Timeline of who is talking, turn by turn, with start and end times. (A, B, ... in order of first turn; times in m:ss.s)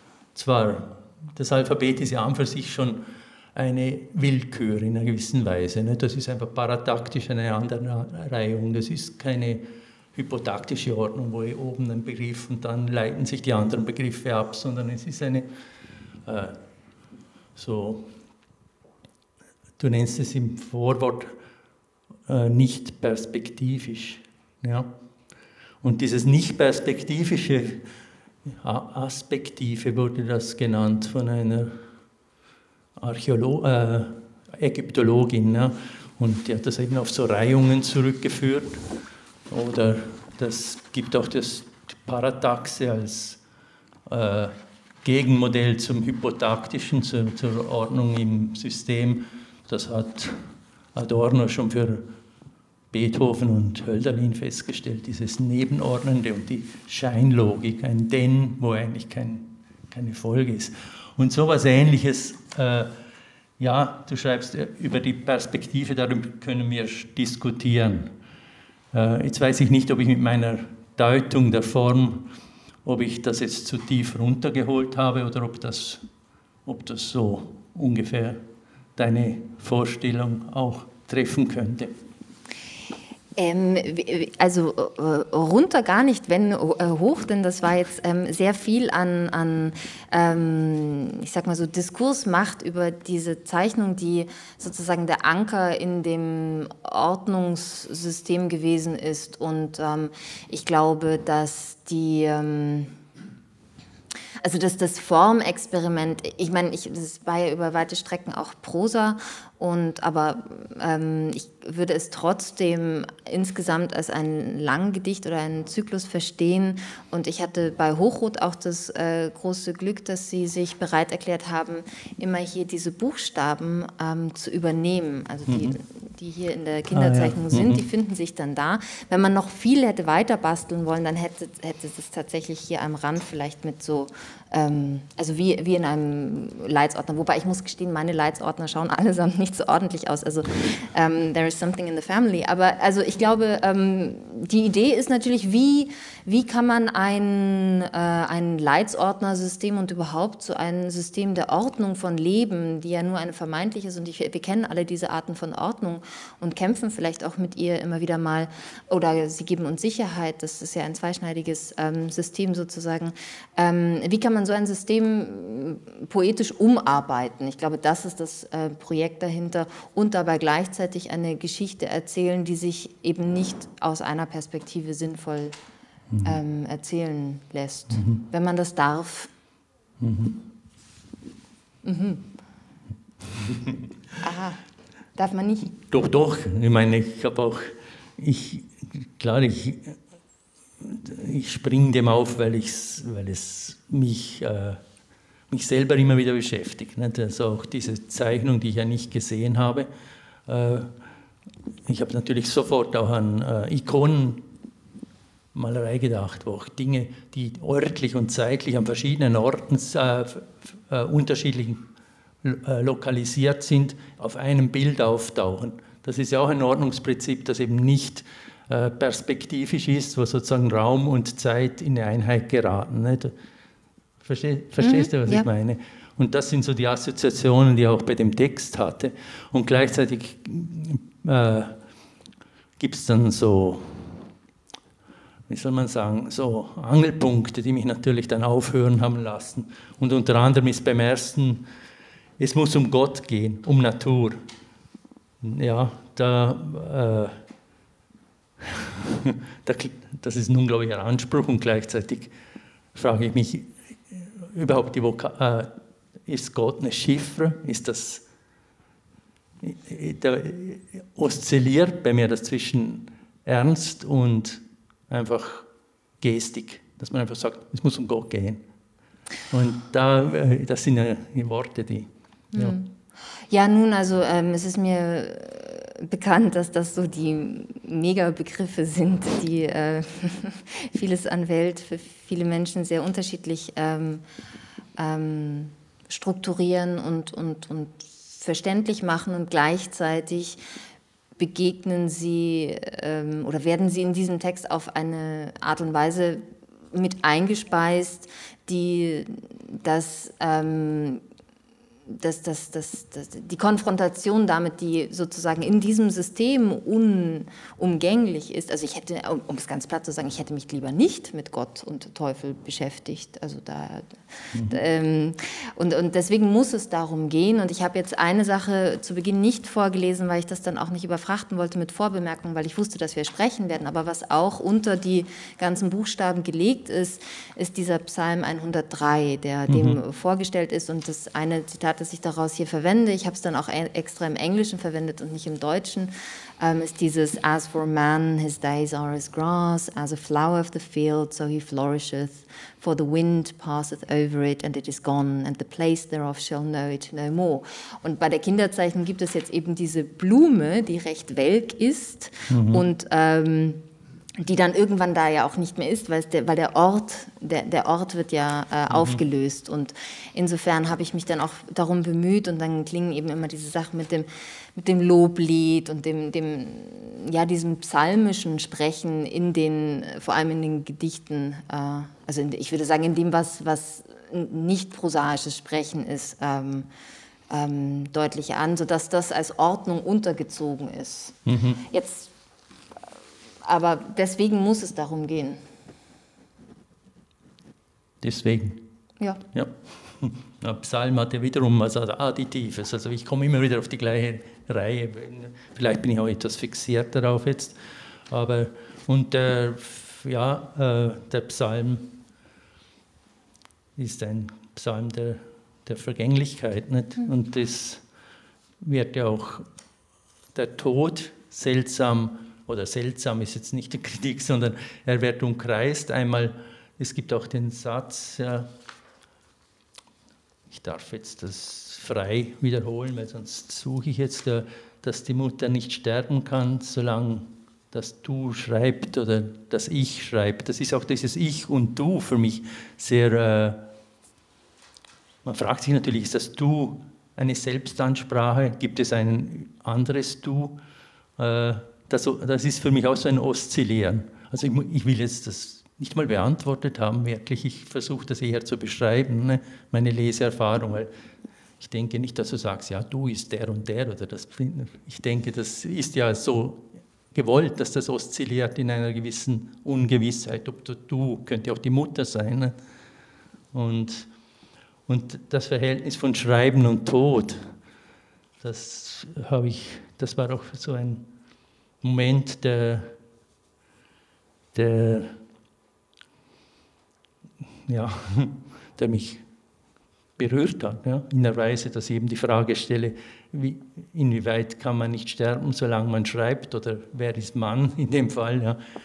0:00.3-0:03.0 A
0:03.5-0:15.4 A
0:16.2-0:16.6 A
0:17.6-0:18.2 A
0:19.8-0:21.3 A
0:22.3-0:24.9 A
0:25.8-0:27.9 A
0:28.4-0:31.8 A
0:33.0-0:38.8 A
0:39.5-0:43.4 A
0:44.1-0:52.1 A
0:52.9-1:02.9 A
1:03.6-1:08.1 A
1:08.9-1:12.3 A
1:12.8-1:16.0 A
1:16.6-1:18.4 A
1:19.0-1:21.9 A
1:23.4-1:42.9 B
1:44.4-2:55.6 B
2:05.5-2:05.8 A
2:06.9-2:07.8 A
2:56.2-2:59.3 B
3:00.0-3:00.4 A
3:01.8-3:02.2 B
3:03.4-3:03.8 A
3:04.2-3:04.6 B
3:05.2-3:05.7 B
3:05.7-3:10.0 A
3:10.8-3:14.8 A
3:15.5-3:19.9 A
3:20.5-3:20.9 A
3:21.8-3:24.4 A
3:25.5-3:31.8 A
3:32.4-3:43.3 A
3:44.2-3:51.8 A
3:44.8-3:45.5 B
3:52.8-3:54.2 A
3:55.5-4:01.6 A
4:02.4-4:04.4 A
4:05.4-4:07.4 A
4:08.6-4:12.3 A
4:12.9-4:15.7 A
4:16.2-4:18.2 A
4:19.6-4:25.7 A
4:26.2-4:28.6 A
4:29.5-4:32.8 A
4:32.5-4:32.9 B
4:33.5-4:44.2 B
4:45.0-4:50.6 B
4:51.4-5:01.2 B
5:02.1-5:53.8 B
5:29.7-5:30.0 A
5:52.5-5:52.8 A
5:54.4-6:16.9 B
5:58.9-5:59.2 A
6:17.5-6:22.3 B
6:21.4-6:21.8 A
6:23.6-6:25.6 B
6:28.2-6:28.8 A
6:29.5-6:42.2 A
6:44.0-6:48.0 A
6:48.8-6:49.7 A
6:50.5-6:58.7 A
7:00.7-7:13.8 A
7:15.4-7:20.8 A
7:21.4-7:31.1 A
7:31.8-7:42.7 A
7:43.7-7:44.3 A
7:45.1-7:47.8 A
7:48.6-7:51.3 A
7:52.0-7:53.2 A
7:54.7-7:55.4 A
7:57.9-7:59.4 A
8:00.4-8:08.8 A